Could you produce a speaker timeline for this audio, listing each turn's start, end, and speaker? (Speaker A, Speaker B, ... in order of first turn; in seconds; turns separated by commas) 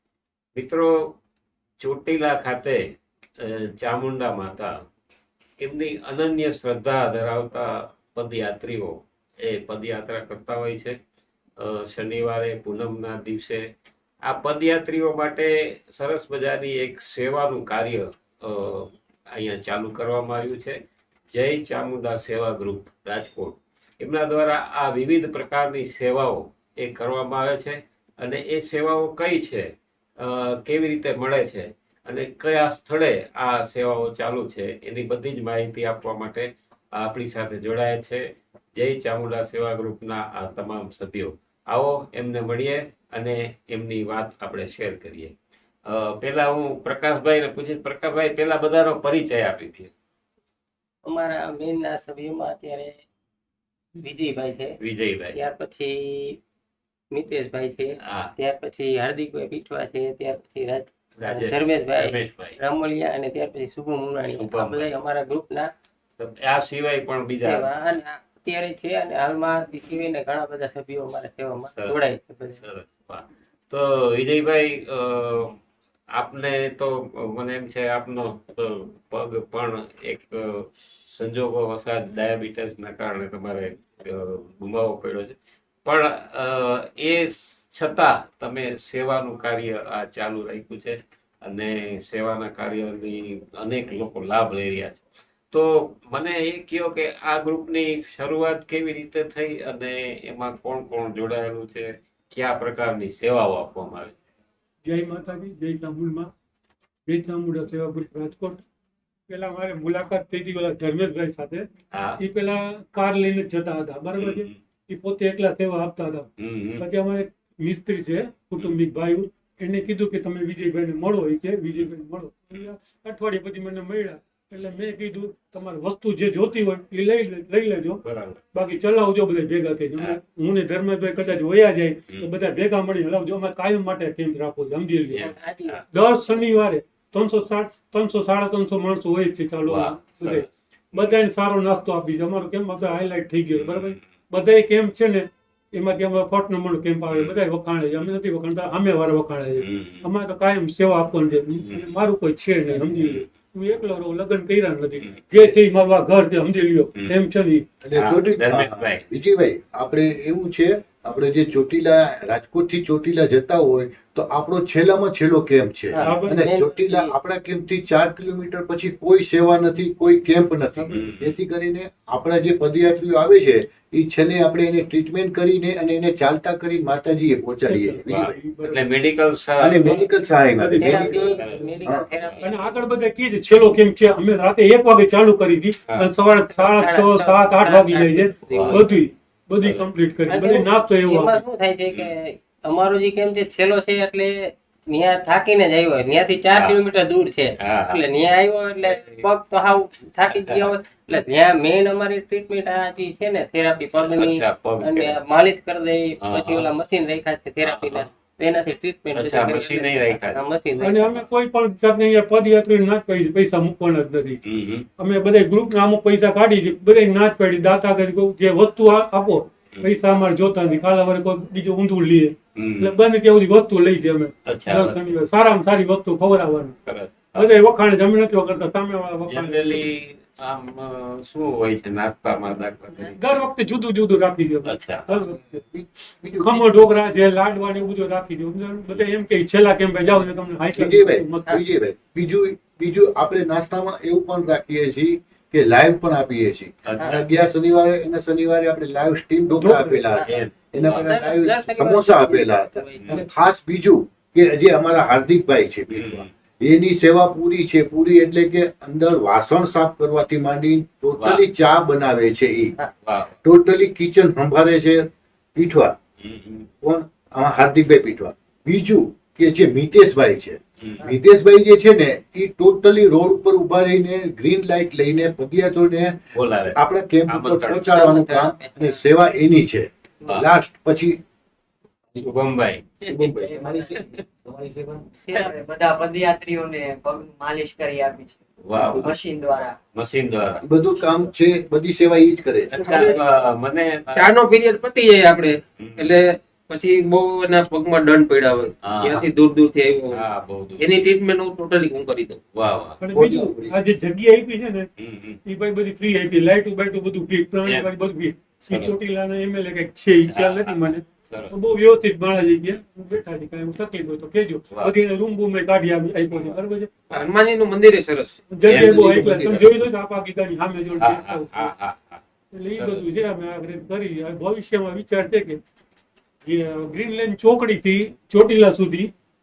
Speaker A: 0.6-1.2, Speaker A: 1.8-4.7, Speaker A: 5.6-11.0, Speaker A: 11.6-13.7, Speaker A: 14.2-20.8, Speaker A: 21.3-45.3, Speaker A: 45.9-49.9, Speaker B: 51.1-53.0, Speaker B: 54.0-54.8, Speaker A: 54.8-55.4, Speaker B: 55.3-56.4, Speaker B: 57.1-65.7, Speaker A: 58.0-58.3, Speaker A: 61.2-62.6, Speaker A: 64.3-64.9, Speaker A: 66.2-67.7, Speaker B: 67.4-72.6, Speaker A: 71.6-72.0, Speaker A: 72.5-75.6, Speaker A: 76.2-104.2, Speaker C: 104.8-106.3, Speaker C: 107.1-108.6, Speaker C: 109.3-111.7, Speaker A: 111.9-112.2, Speaker C: 112.2-116.3, Speaker A: 114.2-114.6, Speaker A: 116.4-116.9, Speaker C: 116.8-128.0, Speaker A: 128.0-128.4, Speaker C: 128.5-135.3, Speaker A: 135.1-135.8, Speaker B: 135.2-135.8, Speaker C: 135.9-157.7, Speaker A: 139.7-141.2, Speaker A: 143.5-144.0, Speaker A: 149.6-150.1, Speaker A: 152.9-153.3, Speaker D: 157.8-178.3, Speaker A: 157.9-159.1, Speaker B: 165.9-167.2, Speaker C: 166.1-166.4, Speaker C: 170.7-171.1, Speaker A: 170.9-171.4, Speaker C: 177.7-178.9, Speaker A: 178.1-180.1, Speaker D: 179.6-182.1, Speaker C: 180.6-181.7, Speaker B: 180.8-182.8, Speaker A: 180.9-182.5, Speaker C: 182.4-191.4, Speaker B: 186.5-189.0, Speaker A: 188.5-188.9, Speaker A: 189.6-189.9, Speaker B: 190.3-211.2, Speaker A: 196.5-196.8, Speaker A: 197.6-198.0, Speaker A: 198.8-199.3, Speaker A: 200.3-200.8, Speaker A: 204.0-205.2, Speaker A: 206.2-206.7, Speaker A: 207.6-208.1, Speaker A: 209.1-210.4, Speaker C: 210.8-214.4, Speaker A: 214.4-214.9, Speaker C: 215.0-226.8, Speaker A: 222.6-223.0, Speaker A: 224.5-225.2, Speaker A: 226.8-227.5, Speaker C: 227.3-229.9, Speaker A: 229.3-233.4, Speaker C: 232.9-235.6, Speaker A: 234.7-235.1, Speaker D: 235.2-236.8, Speaker C: 236.4-241.5, Speaker D: 240.7-262.8, Speaker A: 246.8-247.2, Speaker C: 249.6-250.1, Speaker B: 250.1-253.2, Speaker A: 250.2-251.2, Speaker A: 255.9-256.3, Speaker A: 261.2-261.4, Speaker A: 263.0-263.4, Speaker D: 263.4-266.0, Speaker A: 266.2-266.7, Speaker D: 266.8-281.2, Speaker A: 276.3-276.8, Speaker A: 277.3-278.0, Speaker B: 277.9-279.0, Speaker A: 282.2-283.3, Speaker D: 283.1-285.1, Speaker E: 285.4-289.8, Speaker A: 288.6-289.1, Speaker A: 289.9-290.6, Speaker D: 290.6-293.0, Speaker A: 292.7-294.3, Speaker F: 292.9-293.2, Speaker F: 294.1-300.2, Speaker A: 295.8-296.1, Speaker A: 298.8-299.3, Speaker A: 300.1-301.1, Speaker F: 300.8-302.4, Speaker A: 302.6-303.0, Speaker C: 303.0-304.9, Speaker D: 303.1-303.8, Speaker A: 305.0-305.4, Speaker C: 305.4-316.9, Speaker A: 308.6-308.9, Speaker A: 310.3-311.6, Speaker F: 317.1-318.4, Speaker C: 318.5-321.7, Speaker D: 318.6-319.7, Speaker A: 318.7-319.6, Speaker A: 321.0-323.1, Speaker C: 322.5-325.6, Speaker C: 326.4-329.1